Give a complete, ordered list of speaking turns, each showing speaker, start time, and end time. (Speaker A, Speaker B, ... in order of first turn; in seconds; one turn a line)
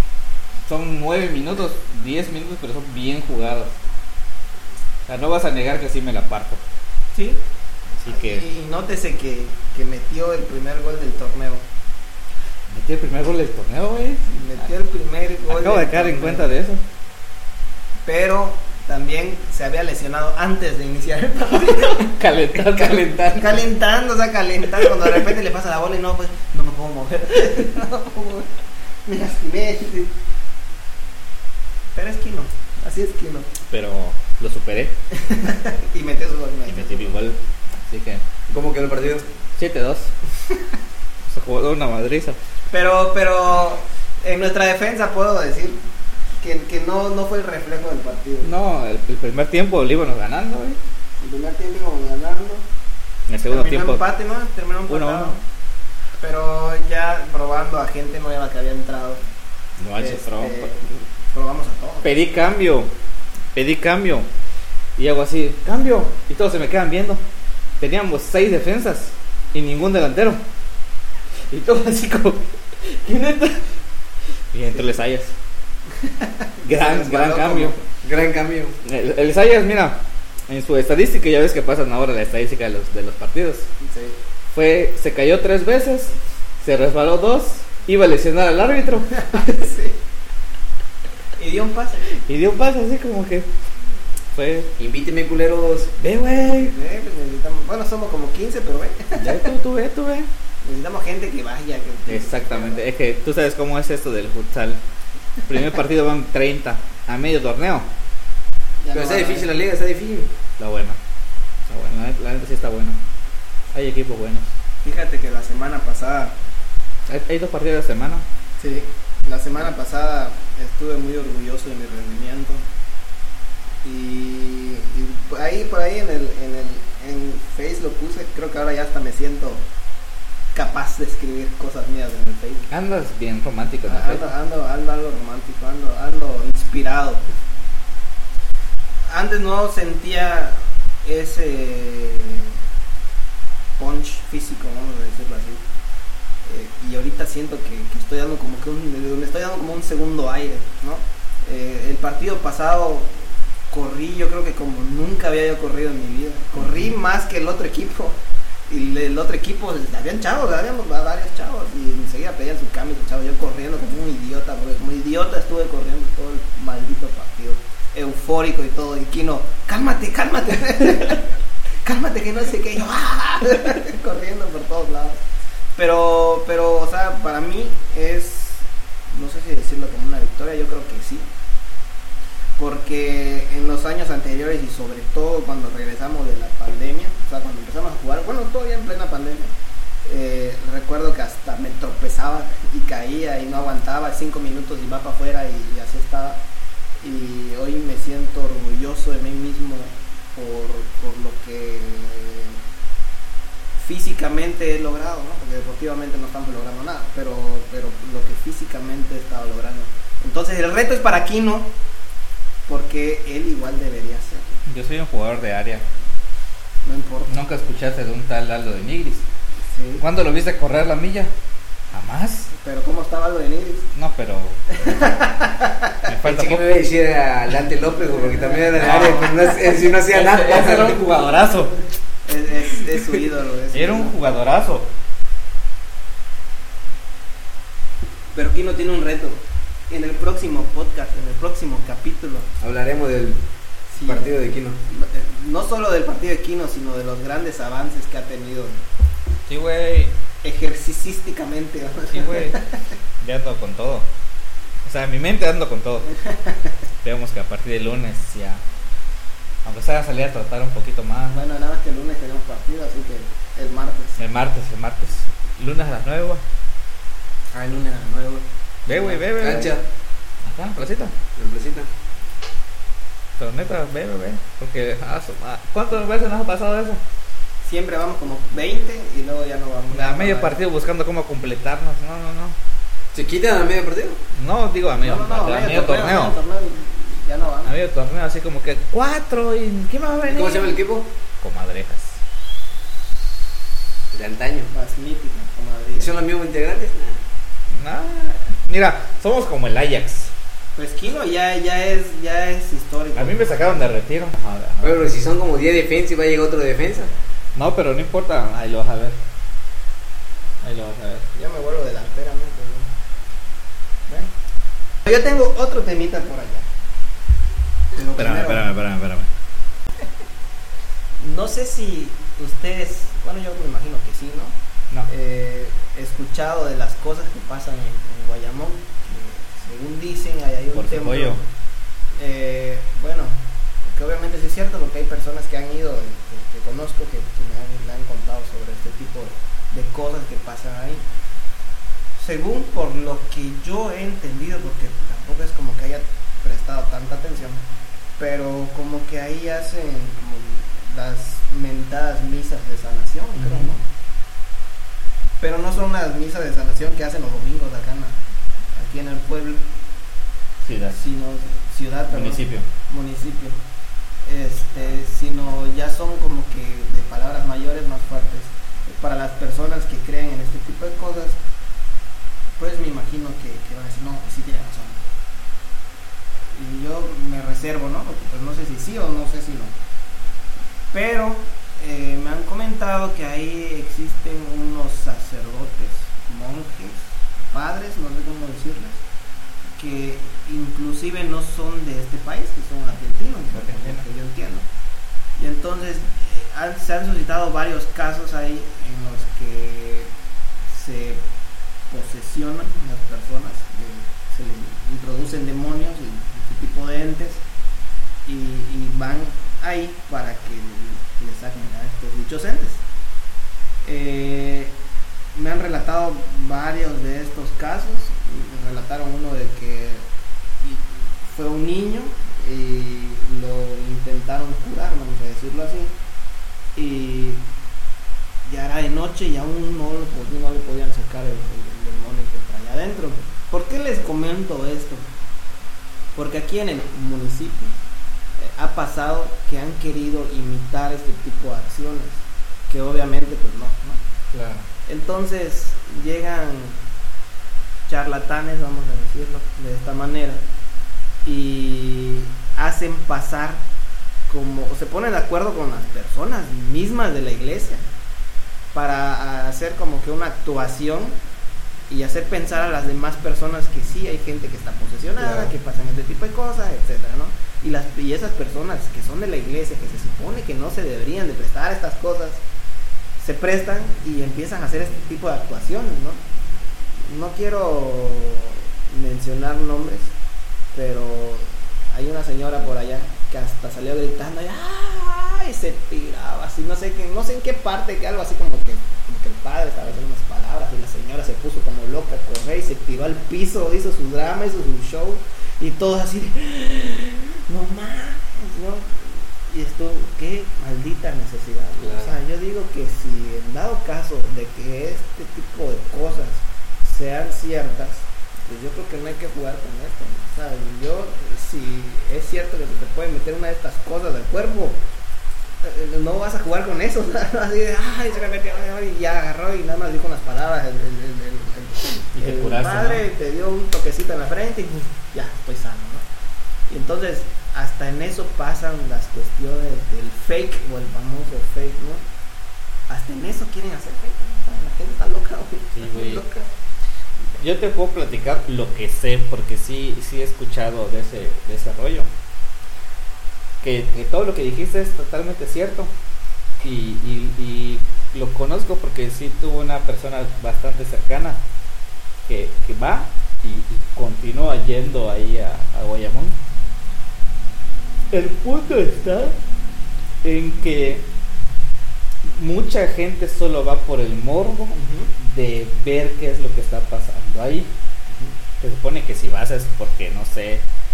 Speaker A: 0.7-3.8
Speaker A: 5.1-6.6
Speaker B: 7.1-7.4
Speaker A: 8.0-8.4
Speaker B: 8.0-11.6
Speaker A: 12.7-14.7
Speaker B: 14.3-16.5
Speaker A: 15.5-16.8
Speaker B: 18.1-22.1
Speaker A: 21.7-23.3
Speaker C: 22.6-23.4
Speaker B: 23.4-28.5
Speaker B: 29.1-30.1
Speaker B: 31.9-33.5
Speaker A: 33.7-34.9
Speaker B: 35.1-37.2
Speaker A: 36.7-38.2
Speaker C: 38.5-39.2
Speaker A: 39.6-40.1
Speaker A: 41.3-42.4
Speaker B: 42.7-45.8
Speaker B: 46.4-48.5
Speaker A: 48.4-50.8
Speaker B: 51.2-52.6
Speaker A: 53.3-54.0
Speaker B: 53.5-55.4
Speaker A: 54.9-55.3
Speaker B: 56.2-59.2
Speaker A: 59.8-60.7
Speaker B: 60.0-62.1
Speaker A: 62.0-62.9
Speaker A: 63.5-64.3
Speaker A: 65.0-67.2
Speaker A: 67.8-70.4
Speaker A: 71.5-73.6
Speaker A: 74.5-75.3
Speaker A: 76.6-77.8
Speaker C: 76.8-78.8
Speaker A: 78.8-83.7
Speaker B: 83.8-84.2
Speaker A: 84.5-89.6
Speaker B: 89.2-90.0
Speaker B: 91.4-92.0
Speaker A: 92.2-93.5
Speaker A: 94.3-94.7
Speaker C: 94.8-95.9
Speaker A: 96.0-96.7
Speaker B: 96.5-99.5
Speaker A: 99.2-100.3
Speaker B: 100.6-102.8
Speaker A: 102.1-104.8
Speaker A: 105.5-107.9
Speaker B: 108.8-109.5
Speaker C: 108.9-110.3
Speaker A: 110.6-111.0
Speaker A: 111.7-113.0
Speaker A: 113.7-114.5
Speaker B: 114.8-116.3
Speaker A: 117.1-118.2
Speaker B: 118.6-122.7
Speaker B: 123.8-129.6
Speaker B: 130.5-132.7
Speaker A: 132.7-134.2
Speaker B: 133.8-137.2
Speaker B: 139.1-142.6
Speaker B: 143.8-145.6
Speaker B: 146.4-153.1
Speaker B: 153.7-158.2
Speaker B: 158.7-171.2
Speaker B: 171.8-175.2
Speaker B: 175.8-181.3
Speaker B: 182.6-189.5
Speaker B: 190.0-196.4
Speaker B: 197.0-202.6
Speaker B: 203.8-211.7
Speaker B: 212.7-214.6
Speaker A: 214.7-215.8
Speaker B: 216.8-217.3
Speaker A: 217.3-219.2
Speaker B: 219.7-220.0
Speaker A: 220.0-221.3
Speaker A: 221.9-222.5
Speaker B: 222.5-223.9
Speaker A: 223.9-225.2
Speaker B: 224.8-226.0
Speaker A: 226.0-226.7
Speaker C: 226.2-231.0
Speaker B: 228.1-229.5
Speaker A: 228.7-231.8
Speaker B: 232.2-234.2
Speaker A: 233.7-234.9
Speaker B: 238.3-242.5
Speaker C: 242.6-243.4
Speaker B: 243.9-244.3
Speaker C: 244.0-244.8
Speaker B: 244.9-248.8
Speaker A: 249.5-250.1
Speaker B: 250.4-252.6
Speaker A: 252.1-252.6
Speaker A: 253.2-254.1
Speaker A: 254.8-256.1
Speaker B: 256.3-256.6
Speaker A: 257.0-258.6
Speaker A: 259.6-261.4
Speaker B: 261.3-264.2
Speaker A: 264.2-266.4
Speaker B: 267.5-269.2
Speaker A: 268.9-269.7
Speaker C: 269.4-269.8
Speaker A: 270.4-271.1
Speaker C: 271.4-271.9
Speaker A: 273.4-277.0
Speaker B: 277.6-280.6
Speaker A: 279.9-282.6
Speaker C: 283.1-284.2
Speaker A: 284.3-286.4
Speaker B: 285.0-287.7
Speaker A: 287.6-290.8
Speaker C: 290.3-291.1
Speaker A: 291.4-292.2
Speaker C: 294.1-294.7
Speaker B: 294.7-296.1
Speaker C: 296.0-297.2
Speaker A: 297.7-300.3
Speaker B: 300.8-303.9
Speaker A: 303.1-305.0
Speaker C: 304.8-307.1
Speaker A: 307.5-309.2
Speaker A: 310.6-311.2
Speaker B: 311.3-312.9
Speaker B: 315.0-316.6
Speaker B: 317.9-318.6
Speaker A: 318.2-319.3
Speaker B: 321.2-324.5
Speaker B: 325.1-331.4
Speaker A: 330.7-331.4
Speaker B: 332.1-341.0
Speaker B: 342.2-347.6
Speaker B: 348.2-353.8
Speaker A: 353.4-353.7
Speaker B: 355.4-358.2
Speaker B: 358.8-359.6
Speaker A: 360.6-361.0
Speaker B: 360.9-363.6
Speaker A: 362.1-362.6
Speaker B: 364.2-371.4
Speaker B: 372.6-375.0
Speaker B: 376.5-379.7
Speaker B: 380.9-389.0
Speaker B: 389.8-394.6
Speaker A: 393.5-394.0
Speaker B: 395.4-400.1
Speaker B: 400.7-401.2
Speaker B: 401.9-407.4
Speaker B: 408.2-412.8
Speaker B: 413.8-414.7
Speaker B: 415.3-420.0
Speaker B: 420.6-425.9
Speaker B: 426.8-427.4
Speaker B: 428.4-435.1
Speaker B: 436.1-437.7
Speaker B: 438.4-444.0
Speaker A: 444.3-444.6
Speaker B: 444.9-446.8
Speaker B: 447.9-450.4
Speaker B: 451.2-453.6
Speaker B: 454.3-457.9
Speaker B: 458.7-461.2
Speaker B: 461.9-472.4
Speaker A: 465.2-465.5
Speaker B: 473.2-476.2
Speaker B: 477.1-480.1
Speaker B: 480.7-514.8
Speaker A: 501.8-502.1
Speaker B: 515.6-526.0
Speaker A: 522.1-523.0
Speaker B: 526.7-532.0
Speaker B: 532.9-536.5
Speaker A: 535.7-536.2
Speaker A: 537.4-542.1
Speaker A: 543.6-545.9
Speaker A: 546.6-551.4
Speaker A: 552.2-556.4
Speaker A: 558.1-559.4
Speaker A: 560.2-561.0
Speaker A: 562.2-567.7
Speaker B: 564.7-565.1
Speaker B: 568.1-568.4
Speaker A: 568.6-570.6